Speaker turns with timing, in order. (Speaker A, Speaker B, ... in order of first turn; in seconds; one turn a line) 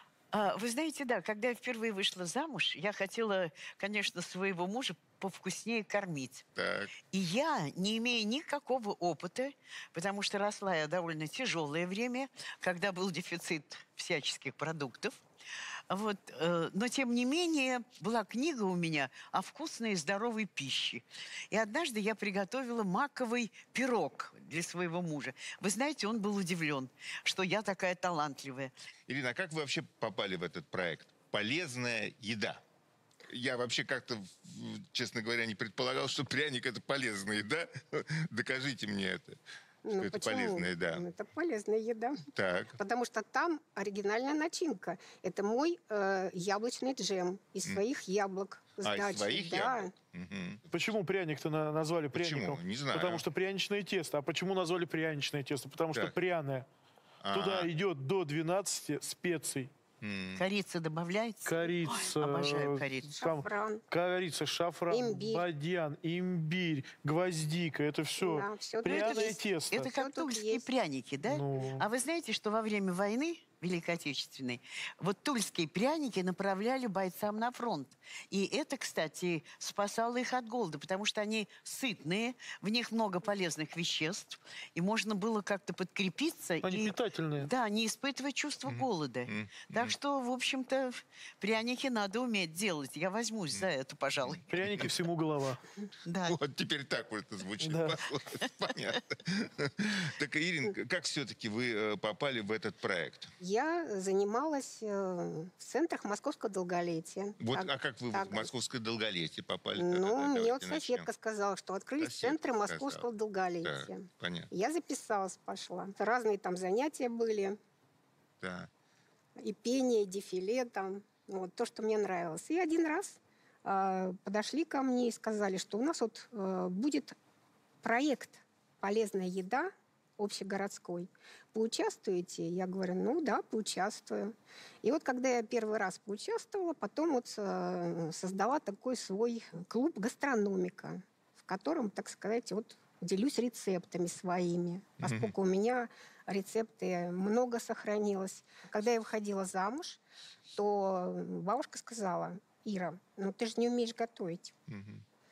Speaker A: 0.3-6.4
Speaker B: 6.6-6.9
Speaker A: 7.1-15.2
Speaker A: 15.9-28.7
Speaker B: 29.1-32.6
Speaker B: 33.3-39.4
Speaker C: 39.8-42.2
Speaker B: 39.9-41.0
Speaker B: 42.3-42.8
Speaker C: 42.8-49.9
Speaker B: 48.8-50.6
Speaker D: 50.7-56.7
Speaker B: 52.1-53.3
Speaker B: 57.2-57.7
Speaker D: 57.3-59.7
Speaker B: 60.0-60.4
Speaker A: 60.4-63.1
Speaker D: 61.5-70.0
Speaker C: 63.2-63.8
Speaker C: 64.9-65.5
Speaker C: 68.2-70.7
Speaker A: 68.9-94.4
Speaker D: 71.2-71.9
Speaker D: 86.6-87.5
Speaker B: 88.7-90.0
Speaker B: 94.2-94.9
Speaker D: 94.5-95.6
Speaker A: 96.1-96.4
Speaker B: 96.3-103.3
Speaker D: 97.6-98.0
Speaker C: 103.4-108.5
Speaker B: 107.4-111.1
Speaker C: 109.8-117.6
Speaker B: 112.0-113.1
Speaker B: 113.6-114.5
Speaker B: 118.4-118.7
Speaker C: 119.4-127.2
Speaker C: 127.8-150.0
Speaker B: 145.0-145.3
Speaker C: 150.6-154.5
Speaker B: 154.7-155.0